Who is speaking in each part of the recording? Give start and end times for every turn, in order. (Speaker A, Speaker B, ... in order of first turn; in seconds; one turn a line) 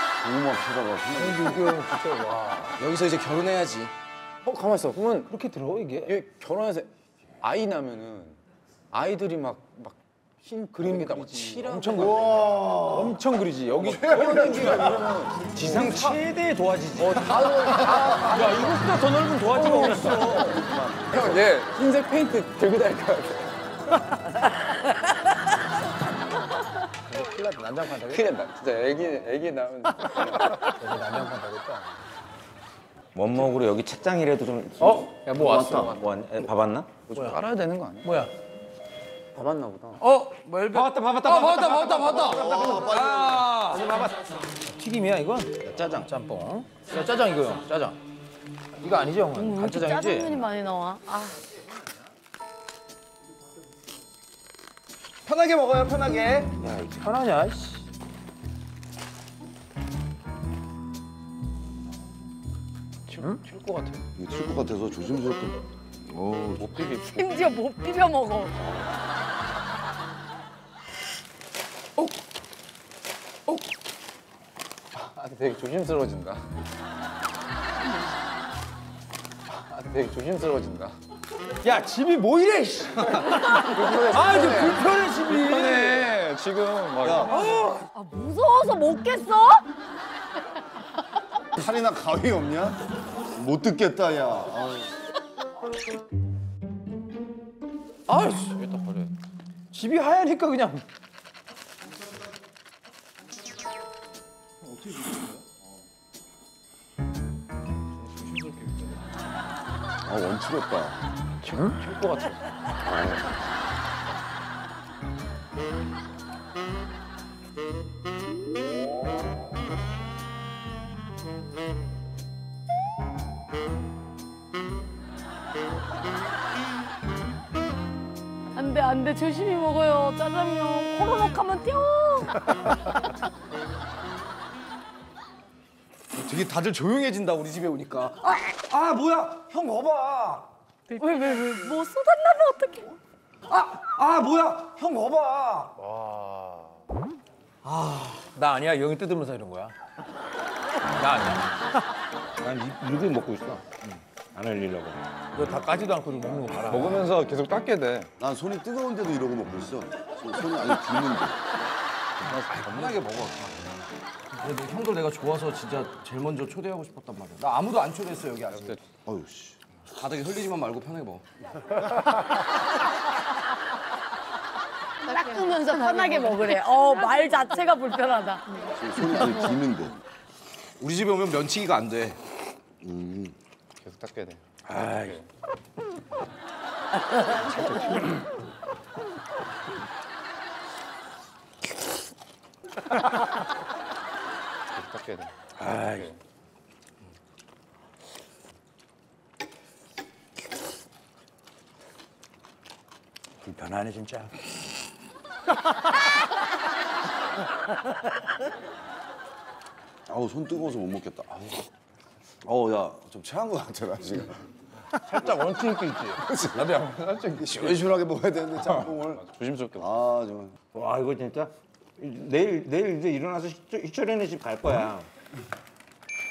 Speaker A: 0.2-1.8
Speaker B: 1.1-2.8
Speaker C: 2.8-3.9
Speaker D: 4.5-5.3
Speaker B: 5.2-6.2
Speaker D: 6.1-6.9
Speaker D: 7.4-8.4
Speaker D: 8.9-12.2
Speaker B: 10.4-16.1
Speaker A: 11.9-13.2
Speaker D: 13.7-16.1
Speaker A: 13.9-15.1
Speaker E: 15.5-20.5
Speaker D: 17.0-18.8
Speaker A: 17.7-18.1
Speaker D: 19.5-20.4
Speaker A: 19.6-21.4
Speaker D: 21.1-23.5
Speaker B: 27.1-28.3
Speaker D: 28.1-30.6
Speaker B: 30.6-31.9
Speaker E: 33.1-37.0
Speaker B: 34.8-36.0
Speaker D: 37.1-38.1
Speaker B: 37.1-37.4
Speaker B: 38.0-38.3
Speaker D: 39.3-40.0
Speaker B: 40.0-43.9
Speaker C: 40.7-43.8
Speaker A: 41.7-43.5
Speaker B: 44.6-48.0
Speaker E: 45.6-46.1
Speaker B: 48.8-50.4
Speaker F: 49.3-51.4
Speaker C: 55.2-56.5
Speaker B: 56.6-57.9
Speaker D: 63.1-64.1
Speaker A: 64.2-66.6
Speaker D: 66.6-67.5
Speaker F: 67.0-68.5
Speaker D: 74.9-76.4
Speaker D: 79.5-81.0
Speaker B: 81.6-86.1
Speaker A: 83.5-84.8
Speaker D: 85.3-87.3
Speaker A: 87.0-87.3
Speaker B: 87.3-87.8
Speaker F: 87.9-89.7
Speaker A: 91.5-94.9
Speaker B: 98.1-98.6
Speaker D: 98.4-99.1
Speaker B: 99.7-100.8
Speaker B: 108.0-109.0
Speaker A: 110.0-111.0
Speaker B: 111.5-112.3
Speaker F: 128.6-132.5
Speaker C: 136.2-140.5
Speaker F: 140.9-142.9
Speaker C: 143.5-145.7
Speaker C: 147.8-148.2
Speaker B: 148.2-149.7
Speaker B: 151.0-151.5
Speaker E: 152.4-153.7
Speaker E: 154.3-155.1
Speaker B: 155.3-157.1
Speaker D: 156.7-158.1
Speaker A: 158.2-161.4
Speaker D: 162.2-163.0
Speaker C: 162.5-163.6
Speaker C: 164.4-168.8
Speaker A: 169.0-169.6
Speaker C: 169.9-171.2
Speaker F: 175.0-179.3
Speaker A: 178.7-180.0
Speaker C: 180.8-182.2
Speaker A: 182.8-183.3
Speaker D: 183.8-185.2
Speaker B: 184.7-185.1
Speaker D: 187.6-188.0
Speaker D: 194.7-196.1
Speaker B: 195.6-196.1
Speaker B: 203.4-204.3
Speaker A: 210.1-211.7
Speaker A: 212.4-214.4
Speaker B: 215.0-217.8
Speaker A: 216.2-216.8
Speaker A: 217.5-220.6
Speaker D: 219.1-219.9
Speaker E: 220.7-225.1